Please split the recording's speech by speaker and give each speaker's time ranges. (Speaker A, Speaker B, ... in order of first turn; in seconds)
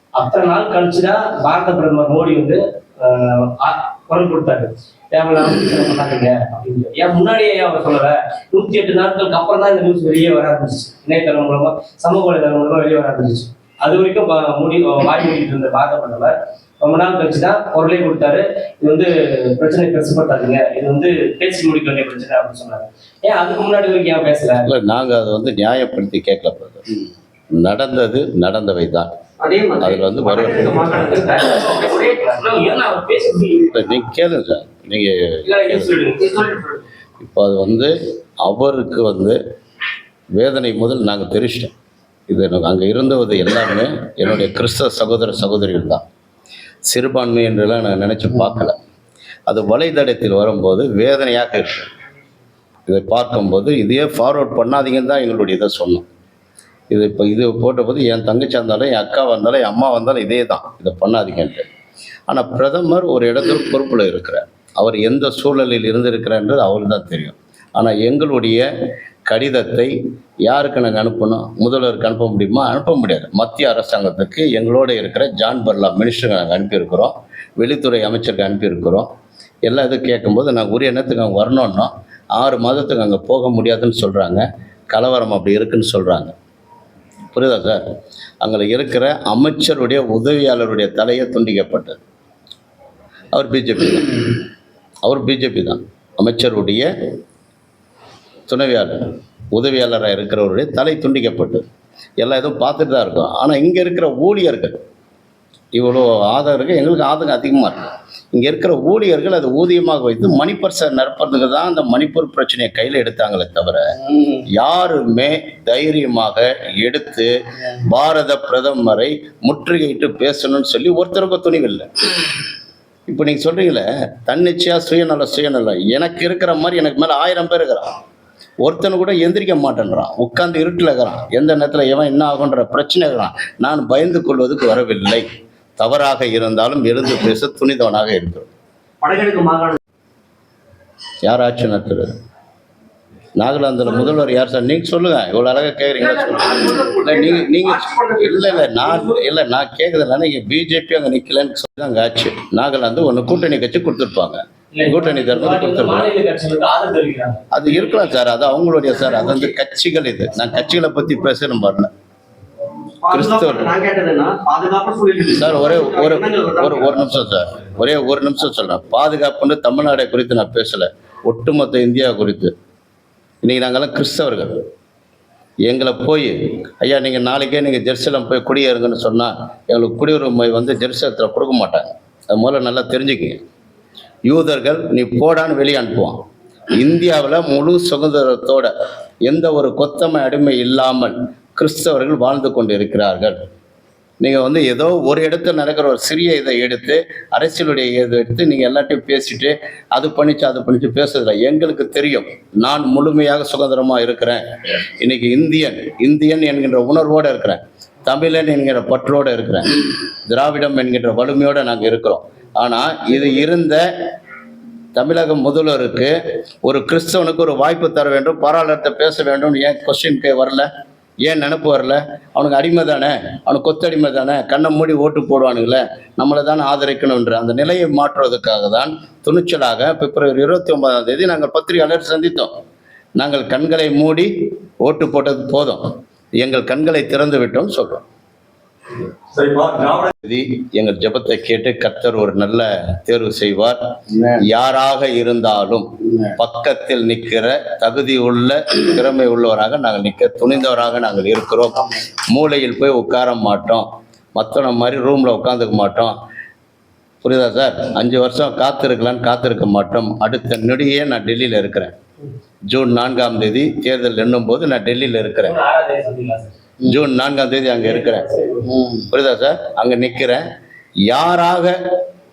Speaker A: 0.1-24.7, 31.1-33.8, 35.4-36.5, 154.7-157.5, 239.3-240.1, 265.4-266.5, 267.8-268.9
Speaker B: 24.6-26.9, 27.5-29.1, 29.8-30.9, 33.7-36.0, 37.2-39.4, 40.4-41.7, 42.3-46.0, 46.9-48.8, 49.5-51.9, 52.9-56.0, 56.9-61.6, 62.3-68.7, 69.3-69.9, 70.5-79.1, 79.6-86.3, 87.3-87.8, 88.4-92.0, 93.3-94.4, 95.0-96.9, 98.5-101.7, 102.2-104.8, 105.7-113.9, 114.5-121.9, 123.1-128.0, 128.6-135.2, 135.8-138.5, 141.2-142.1, 143.4-156.1, 157.5-161.9, 163.1-163.7, 165.3-172.5, 173.4-174.6, 175.6-183.4, 184.3-188.7, 189.2-193.4, 194.2-204.4, 205.0-213.8, 214.9-220.7, 221.2-232.5, 233.2-235.8, 236.4-238.0, 240.2-256.1, 257.2-261.9, 262.7-265.6, 266.8-268.2, 268.9-270.4, 271.1-271.8
Speaker C: 29.4-31.8, 36.2-36.8, 139.0-139.8, 146.0-149.2, 163.0-167.1